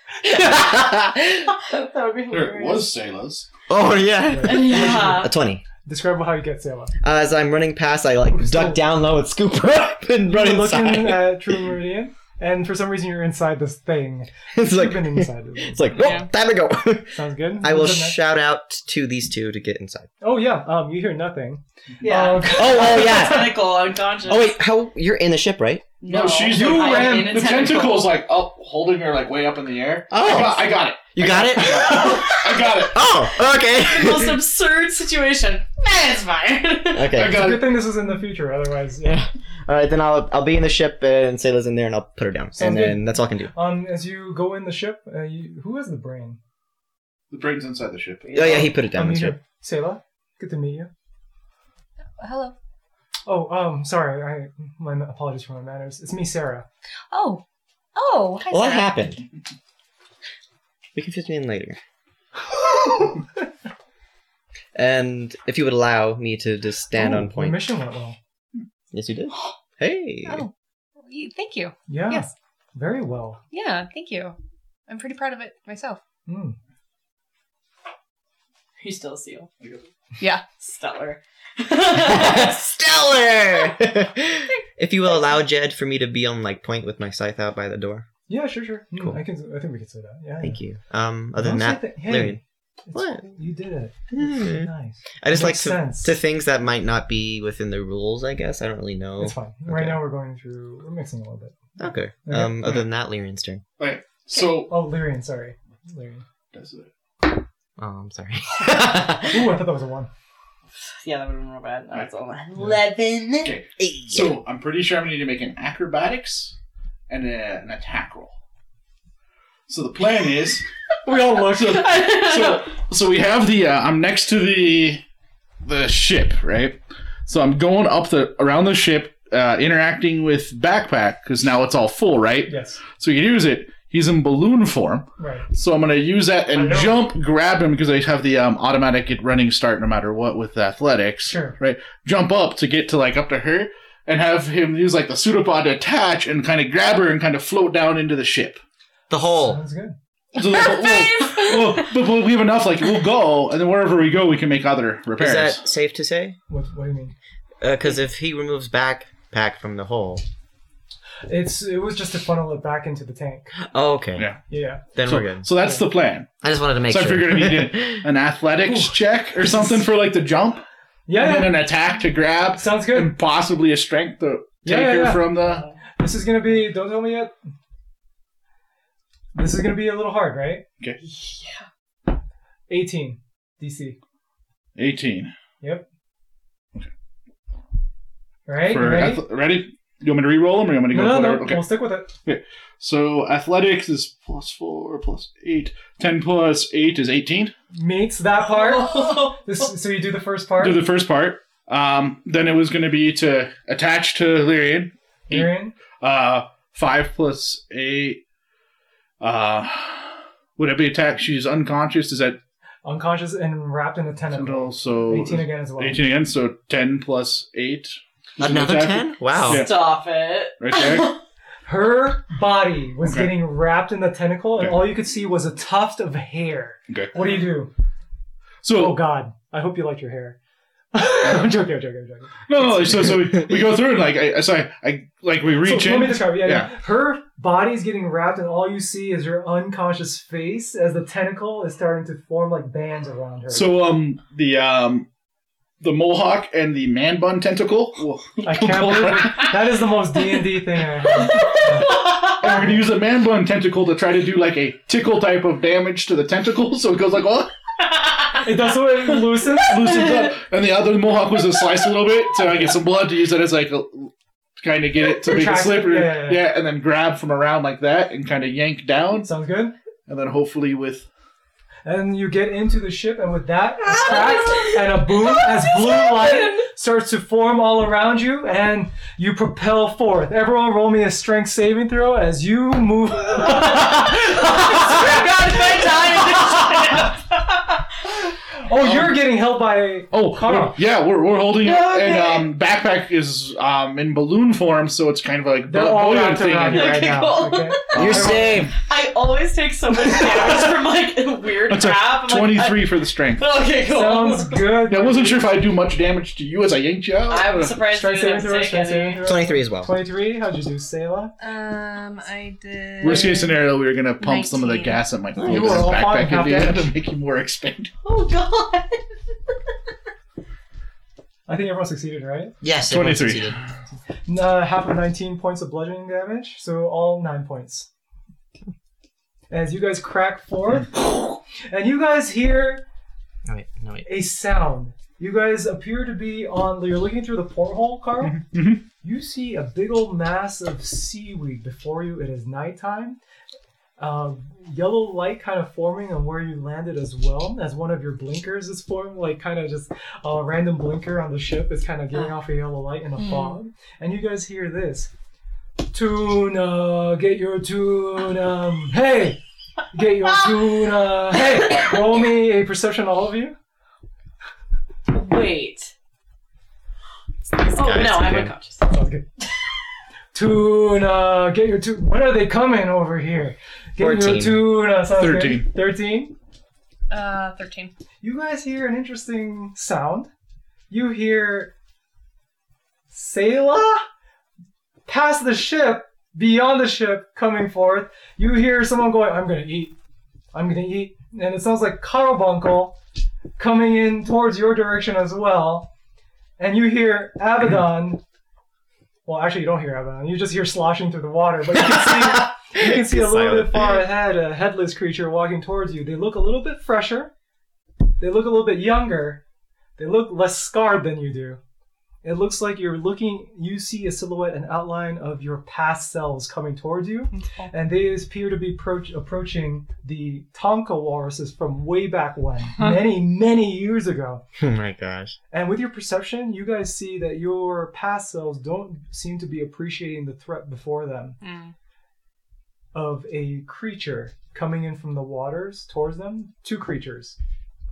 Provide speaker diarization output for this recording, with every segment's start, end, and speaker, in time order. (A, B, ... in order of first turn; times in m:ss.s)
0:00.3-0:01.2 A
0:01.6-0:03.0 B
0:02.3-0:03.5 C
0:03.7-0:05.6 A
0:04.3-0:05.3 D
0:04.4-0:05.3 B
0:05.8-0:06.9 D
0:07.0-0:11.7 A
0:08.3-0:08.8 D
0:10.3-0:16.1 D
0:14.5-0:20.1 A
0:17.1-0:18.2 D
0:20.2-0:23.6 D
0:22.0-0:24.6 B
0:22.5-0:23.6 A
0:24.3-0:25.9 A
0:26.0-0:28.2 B
0:26.0-0:33.0 C
0:26.5-0:27.5 D
0:30.1-0:34.4 A
0:31.7-0:32.8 B
0:33.6-0:37.2 B
0:36.9-0:37.5 A
0:37.1-0:37.9 C
0:37.3-0:39.2 D
0:39.0-0:43.5 A
0:42.6-0:46.4 D
0:47.3-0:48.4 C
0:48.2-0:48.8 B
0:48.3-0:49.4 A
0:48.9-0:50.9 D
0:52.2-0:52.5 E
0:53.2-0:56.7 D
0:57.1-0:57.4 E
0:57.9-0:58.9 E
0:58.5-0:59.2 A
1:00.9-1:01.8 A
1:02.5-1:03.2 D
1:04.7-1:07.7 A
1:06.9-1:08.2 D
1:08.9-1:10.4 A
1:10.2-1:10.5 E
1:11.0-1:12.3 E
1:11.9-1:13.4 D
1:13.5-1:14.4 E
1:14.9-1:16.0 E
1:16.3-1:16.6 D
1:18.8-1:19.5 B
1:20.6-1:22.7 B
1:22.0-1:28.1 A
1:28.3-1:30.6 D
1:30.4-1:32.4 A
1:31.4-1:36.2 D
1:32.9-1:33.3 A
1:34.1-1:40.0 A
1:39.2-1:42.8 D
1:41.8-1:43.6 A
1:43.8-1:44.7 C
1:44.7-1:46.2 D
1:46.5-1:46.9 C
1:47.8-1:49.5 A
1:49.2-1:50.1 D
1:50.8-1:53.5 B
1:53.4-1:56.5 C
1:53.8-1:54.4 A
1:57.1-1:58.3 C
1:59.7-2:05.0 C
2:01.0-2:01.8 D
2:01.6-2:02.8 B
2:05.6-2:28.6 C
2:12.5-2:12.8 D
2:15.2-2:15.4 D
2:16.5-2:17.0 D
2:21.2-2:21.6 D
2:29.1-2:29.6 A
2:29.4-2:30.0 D
2:30.3-2:35.6 C
2:30.6-2:31.0 B
2:35.2-2:36.4 A
2:36.5-2:37.1 D
2:37.6-2:40.2 A
2:41.3-2:43.5 D
2:43.6-2:44.3 A
2:44.2-2:44.4 C
2:44.5-2:44.9 D
2:45.0-2:45.5 A
2:45.0-2:46.3 C
2:45.6-2:45.8 D
2:46.4-2:48.0 A
2:46.8-2:55.6 C
2:48.6-2:49.8 D
2:51.1-2:51.6 D
2:52.5-2:53.2 D
2:54.6-2:55.4 D
2:56.0-2:57.3 D
2:59.3-3:00.6 D
3:01.0-3:01.6 B
3:02.7-3:04.0 D
3:04.8-3:05.3 C
3:05.6-3:05.8 D
3:08.4-3:09.2 D
3:08.6-3:11.7 C
3:10.9-3:12.1 D
3:12.2-3:17.5 C
3:17.7-3:20.9 D
3:18.4-3:19.5 B
3:20.6-3:28.2 C
3:25.3-3:25.8 D
3:29.2-3:32.4 C
3:32.8-3:36.0 D
3:34.3-3:39.8 C
3:38.4-3:39.7 A
3:39.4-3:41.2 B
3:40.6-3:41.2 C
3:41.6-3:47.7 D
3:43.0-3:43.3 C
3:44.6-3:44.8 C
3:46.9-3:47.1 C
3:48.6-3:49.0 C
3:48.7-3:50.4 D
3:50.9-3:53.4 D
3:52.5-3:56.7 C
3:55.6-4:03.7 D
4:03.5-4:05.0 C
4:05.8-4:09.7 C
4:08.4-4:12.9 D
4:11.2-4:12.6 B
4:11.9-4:17.5 C
4:17.9-4:18.7 B
4:18.4-4:20.2 D
4:19.4-4:20.2 B
4:19.6-4:29.3 C
4:21.6-4:21.8 B
4:25.2-4:26.5 D
4:29.2-4:29.7 D
4:30.1-4:31.1 C
4:31.8-4:47.1 D
4:34.0-4:36.6 B
4:43.5-4:47.8 B
4:48.6-4:50.8 D
4:48.8-4:49.2 C
4:50.1-4:57.2 C
4:51.6-4:52.5 B
4:55.7-4:58.7 D
4:56.6-5:04.8 B
4:57.9-4:58.7 C
4:57.9-4:58.7 A
5:01.7-5:03.5 C
5:03.8-5:05.6 D
5:04.9-5:07.8 C
5:07.3-5:09.2 B
5:07.7-5:11.3 D
5:09.2-5:10.0 A
5:11.4-5:13.6 E
5:13.0-5:17.9 C
5:14.2-5:15.0 E
5:15.4-5:16.0 A
5:15.4-5:16.9 D
5:18.0-5:19.3 B
5:21.4-5:22.6 D
5:22.6-5:23.6 A
5:22.9-5:23.7 C
5:24.2-5:27.9 D
5:29.5-5:32.8 D
5:33.4-5:34.1 A
5:34.0-5:38.4 D
5:38.2-5:38.8 C
5:39.0-5:43.2 D
5:44.0-5:55.1 D
5:53.2-5:53.6 E
5:55.9-5:59.4 D
5:59.9-6:03.6 D
6:05.1-6:05.9 B
6:07.5-6:09.0 B
6:07.7-6:08.6 A
6:08.9-6:09.2 D
6:10.3-6:16.3 D
6:14.0-6:14.7 A
6:15.0-6:15.7 C
6:17.1-6:17.9 E
6:18.2-6:20.3 D
6:20.9-6:21.7 D
6:23.1-6:24.0 D
6:25.0-6:30.0 D
6:30.5-6:33.0 D
6:33.6-6:35.9 D
6:36.6-6:38.2 D
6:39.2-6:47.3 D
6:41.9-6:43.9 A
6:48.2-6:49.4 D
6:50.0-6:51.6 D
6:52.2-7:04.4 D
6:57.3-6:57.7 E
7:04.6-7:05.4 A
7:05.5-7:11.4 D
7:11.4-7:11.7 E
7:12.9-7:17.4 D